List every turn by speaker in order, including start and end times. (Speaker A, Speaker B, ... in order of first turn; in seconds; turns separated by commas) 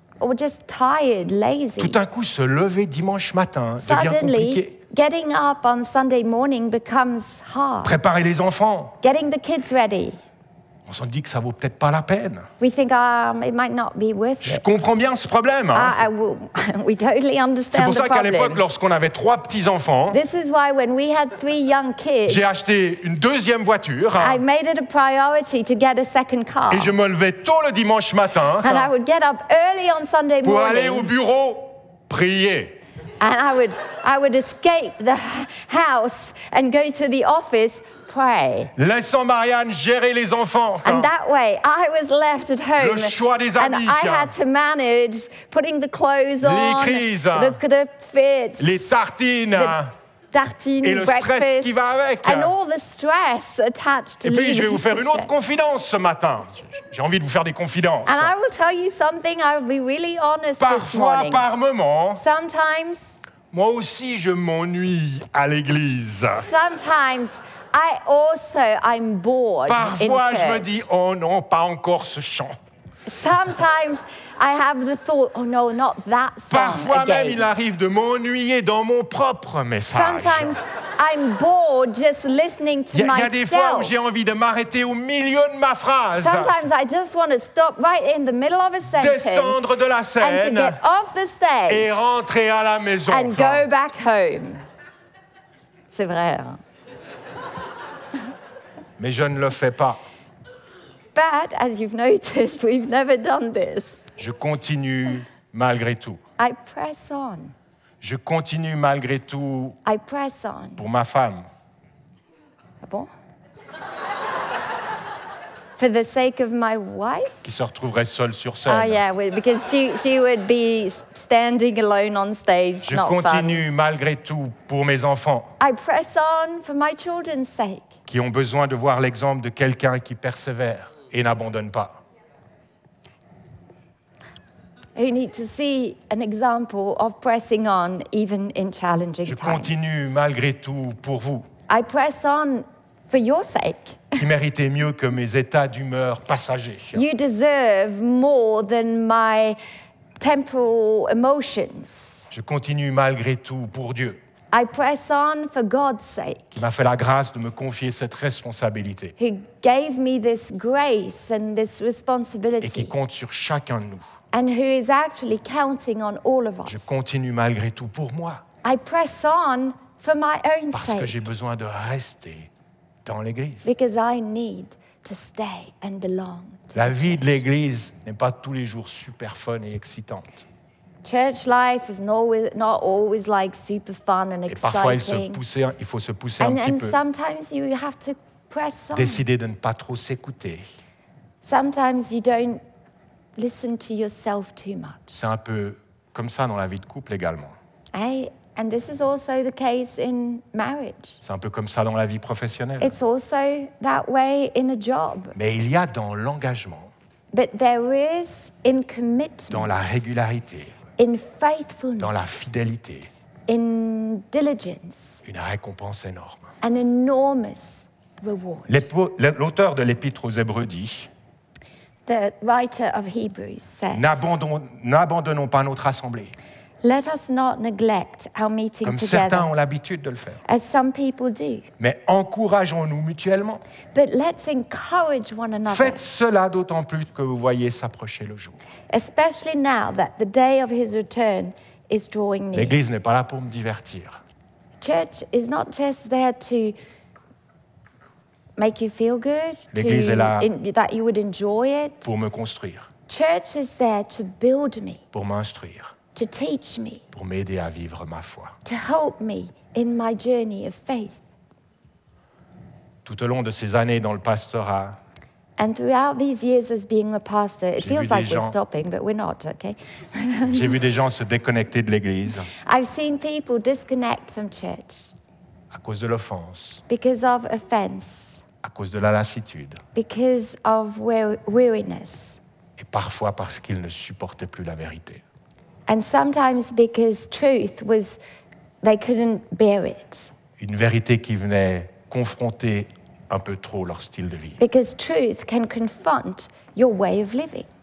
Speaker A: 0.2-2.0, Speaker B: 1.8-4.8, Speaker A: 3.8-8.0, Speaker B: 7.8-9.0, Speaker A: 9.0-10.2, Speaker B: 10.9-12.5, Speaker A: 12.6-14.6, Speaker B: 14.4-16.0, Speaker A: 15.7-18.6, Speaker B: 17.7-20.2, Speaker A: 20.1-22.5, Speaker B: 22.3-24.4, Speaker A: 24.2-26.9, Speaker B: 26.7-28.9, Speaker A: 28.6-31.1, Speaker B: 30.4-32.8, Speaker A: 33.2-38.7, Speaker B: 38.8-41.1, Speaker A: 40.8-48.9, Speaker B: 42.8-44.3, Speaker B: 46.4-47.6, Speaker B: 48.6-49.9, Speaker A: 50.3-55.3, Speaker B: 50.8-52.5, Speaker B: 54.2-58.3, Speaker A: 58.0-61.5, Speaker B: 60.6-62.2, Speaker A: 62.2-63.1, Speaker B: 63.5-66.5, Speaker A: 66.3-70.8, Speaker B: 69.7-72.5, Speaker A: 73.1-77.5, Speaker B: 76.5-80.6, Speaker A: 79.9-83.9, Speaker B: 82.9-86.7, Speaker A: 86.2-89.6, Speaker B: 88.9-90.8, Speaker A: 90.2-92.1, Speaker B: 91.7-93.7, Speaker A: 93.1-94.7, Speaker A: 95.9-96.6, Speaker B: 99.0-100.0, Speaker A: 101.1-104.0, Speaker B: 104.2-106.2, Speaker A: 106.4-107.5, Speaker B: 108.0-109.8, Speaker A: 109.8-110.8, Speaker B: 110.8-111.5, Speaker A: 112.8-113.1, Speaker A: 115.8-117.5, Speaker B: 117.4-119.0, Speaker A: 118.7-123.7, Speaker B: 122.8-125.5, Speaker A: 125.6-127.9, Speaker B: 128.1-132.0, Speaker A: 134.9-139.7, Speaker B: 139.2-141.5, Speaker A: 141.7-144.2, Speaker B: 144.2-147.0, Speaker A: 146.9-149.6, Speaker A: 150.2-152.1, Speaker B: 152.3-154.2, Speaker A: 154.5-156.6, Speaker B: 156.5-159.2, Speaker A: 159.2-162.9, Speaker B: 162.6-164.1, Speaker A: 164.3-167.0, Speaker B: 166.7-168.4, Speaker A: 168.6-171.2, Speaker B: 170.7-172.5, Speaker B: 173.1-173.7, Speaker A: 173.6-177.3, Speaker B: 176.7-180.5, Speaker A: 181.0-185.4, Speaker B: 184.5-187.0, Speaker A: 186.4-189.2, Speaker B: 188.9-190.6, Speaker A: 191.4-192.6, Speaker A: 193.4-195.2, Speaker B: 195.1-197.6, Speaker A: 197.9-201.2, Speaker B: 201.2-203.0, Speaker A: 202.8-205.3, Speaker B: 205.3-206.9, Speaker A: 207.3-209.8, Speaker B: 209.5-210.8, Speaker A: 211.0-212.2, Speaker B: 212.0-213.1, Speaker A: 213.5-215.2, Speaker B: 215.2-216.5, Speaker A: 216.6-218.8, Speaker B: 218.7-221.1, Speaker A: 222.1-224.2, Speaker B: 223.9-226.3, Speaker A: 226.8-229.5, Speaker B: 228.8-230.4, Speaker A: 230.5-231.7, Speaker B: 231.8-233.6, Speaker A: 233.9-236.0, Speaker B: 235.7-238.6, Speaker A: 238.9-242.8, Speaker B: 242.5-244.2, Speaker A: 244.8-246.8, Speaker A: 248.6-252.1, Speaker B: 249.7-250.5, Speaker B: 252.0-252.9, Speaker A: 253.1-255.0, Speaker B: 255.1-255.9, Speaker A: 256.1-257.0, Speaker B: 257.1-258.6, Speaker A: 258.6-261.2, Speaker B: 263.1-265.0, Speaker A: 265.6-270.8, Speaker B: 267.8-268.6, Speaker B: 270.5-272.5, Speaker A: 272.5-275.1, Speaker B: 275.7-276.8, Speaker A: 276.9-278.4, Speaker B: 278.6-279.8, Speaker A: 279.9-282.4, Speaker B: 282.8-285.2, Speaker A: 285.9-288.2, Speaker A: 288.8-290.3, Speaker B: 290.6-294.6, Speaker A: 294.6-297.7